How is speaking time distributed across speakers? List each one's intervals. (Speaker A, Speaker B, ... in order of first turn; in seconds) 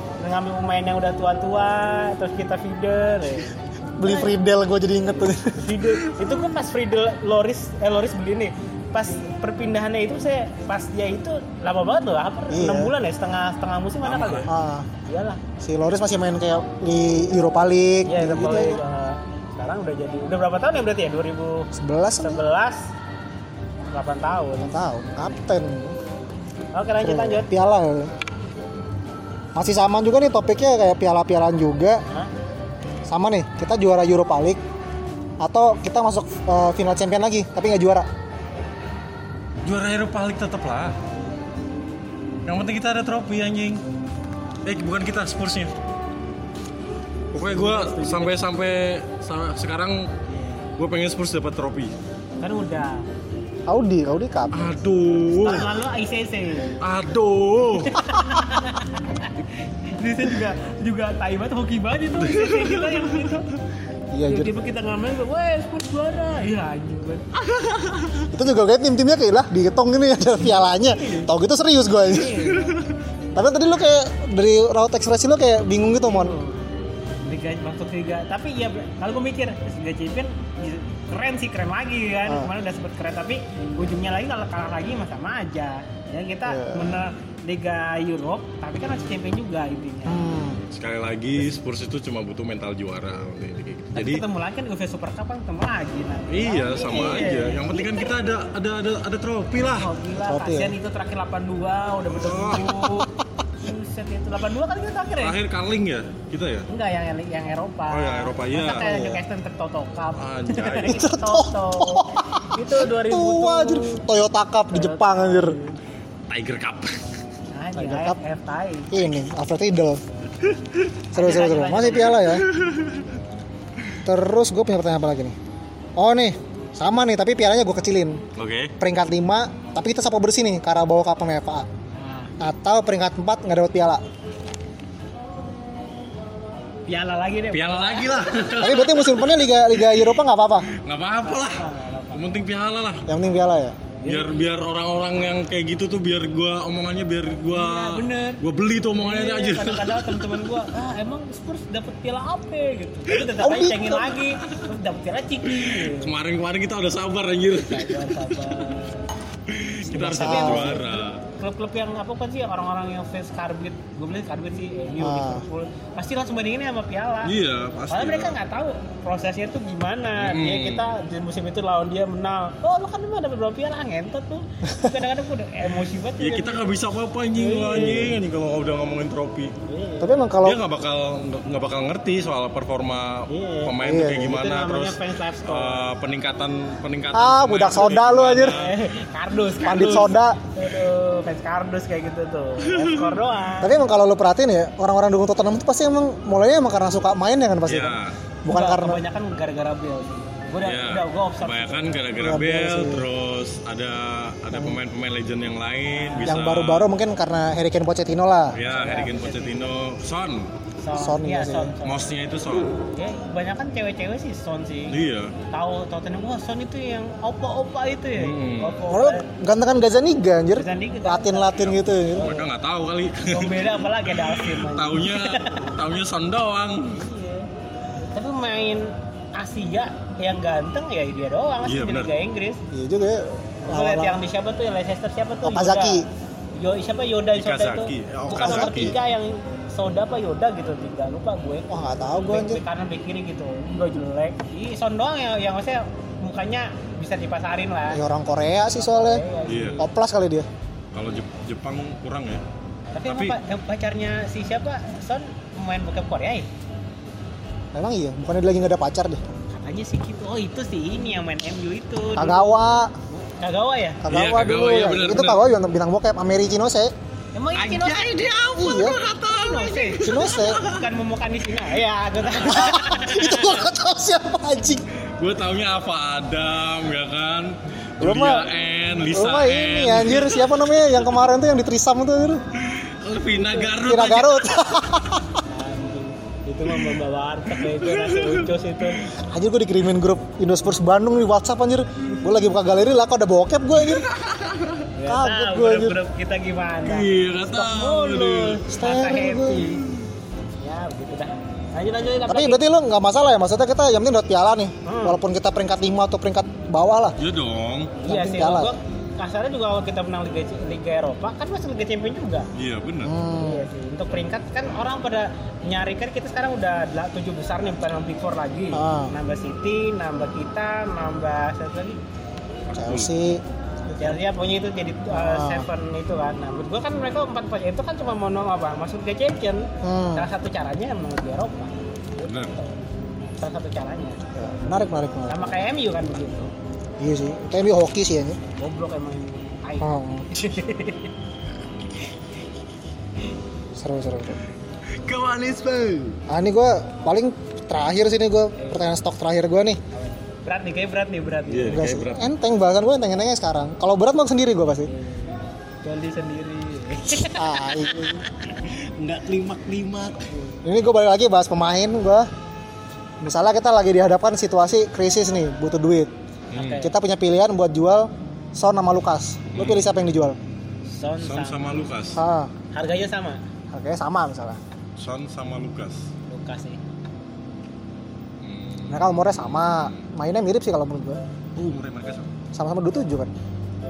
Speaker A: 0.2-4.3, 5.5-14.5, 15.0-15.4, 18.1-22.9, 23.9-24.7, 26.7-27.5, 47.4-48.4, 50.3-50.6, 52.4-53.1, 55.4-56.8, 57.9-63.4, 64.3-67.3, 70.4-71.3, 72.0-72.8, 76.0-76.6, 77.2-90.2, 94.0-97.9, 99.7-105.4, 106.7-114.0, 114.7-115.8, 117.5-119.0, 121.2-122.4, 131.9-132.3, 136.9-138.5, 141.2-142.3, 144.0-144.4, 147.5-148.4, 149.0-156.1, 157.6-159.1, 159.9-167.3, 167.9-176.7, 177.3-178.2, 179.7-180.3, 183.3-185.9, 188.4-193.8, 198.5-201.9, 205.9-206.3, 208.7-209.7, 210.8-212.1, 212.8-215.0, 215.5-219.3, 220.6-222.5, 223.3-225.8, 226.9-232.6, 233.7-248.0, 248.7-249.9, 252.9-256.5, 259.5-262.6, 263.1-264.0, 267.4-273.6, 283.3-283.7, 285.5-289.1, 294.9-299.8, 300.6-302.6, 304.9-305.2, 308.0-312.5, 313.4-322.0, 324.0-332.8, 333.4-334.2, 335.3-336.5, 338.6-341.1, 348.6-348.9, 349.9-351.9, 354.9-358.2, 360.3-360.6, 366.5-366.9, 370.9-371.7, 372.7-373.4, 376.3-376.8
Speaker B: 4.0-6.0, 12.5-12.9, 14.5-14.9, 15.6-18.8, 21.7-22.4, 24.6-26.0, 27.0-28.1, 29.6-32.0, 33.1-34.6, 35.4-38.1, 53.7-54.7, 64.1-64.5, 68.3-72.5, 73.3-76.4, 86.5-87.0, 90.1-90.6, 100.2-100.8, 108.8-109.2, 110.9-115.6, 117.8-118.2, 118.9-120.0, 121.1-122.5, 124.0-125.3, 126.0-128.2, 128.8-131.7, 132.4-134.0, 138.6-140.7, 143.1-143.8, 153.4-154.1, 159.9-160.8, 165.0-165.4, 180.0-180.6, 183.8-184.4, 187.1-188.6, 189.6-190.4, 193.6-199.0, 202.2-203.1, 206.3-208.6, 210.9-211.7, 218.9-222.3, 232.7-234.2, 235.4-236.1, 238.3-239.0, 241.7-242.6, 247.9-249.2, 249.8-250.5, 257.7-259.2, 262.2-262.9, 264.0-266.9, 268.6-269.0, 270.0-270.6, 272.5-274.8, 278.0-278.5, 279.1-282.4, 283.8-285.4, 289.2-294.1, 295.1-296.0, 298.7-299.7, 302.3-307.2, 308.0-308.7, 313.0-313.7, 318.7-319.1, 322.8-324.2, 325.1-325.7, 329.8-330.3, 334.3-335.6, 337.0-338.4, 339.8-340.3, 343.8-344.4, 346.3-349.8, 351.7-354.9, 357.3-358.3, 360.6-362.3, 363.2-366.1, 366.8-370.4, 372.2-372.5, 373.7-374.6, 378.9-381.2, 382.5-383.3
Speaker C: 14.0-14.5, 39.6-41.0, 42.5-43.8, 44.6-45.7, 47.3-50.1, 50.8-52.0, 54.5-55.7, 56.8-58.0, 62.2-63.4, 90.7-94.2, 96.3-99.9, 102.1-103.0, 105.2-106.7, 107.9-108.9, 110.2-111.0, 116.3-117.0, 120.5-120.8, 122.2-123.1, 128.4-128.7, 137.5-139.3, 140.7-143.1, 144.1-150.2, 155.4-158.6, 159.5-161.2, 167.2-168.4, 170.2-170.9, 176.2-179.5, 180.4-188.7, 192.6-193.1, 197.7-198.2, 200.6-206.9, 208.5-210.5, 211.8-212.8, 214.9-215.3, 218.2-218.8, 221.6-227.0, 231.6-232.1, 237.4-239.0, 249.5-249.8, 250.9-252.4, 253.1-253.4, 264.1-265.4, 267.6-270.9, 275.2-280.8, 282.6-284.5, 287.6-288.9, 293.8-294.9, 296.9-298.6, 307.2-308.0, 312.6-313.1, 322.7-323.1, 332.3-332.6, 345.0-346.2, 351.5-352.3, 358.5-360.3, 366.5-366.8, 369.5-369.9, 371.2-372.2, 375.0-376.1, 378.4-380.0, 381.6-382.3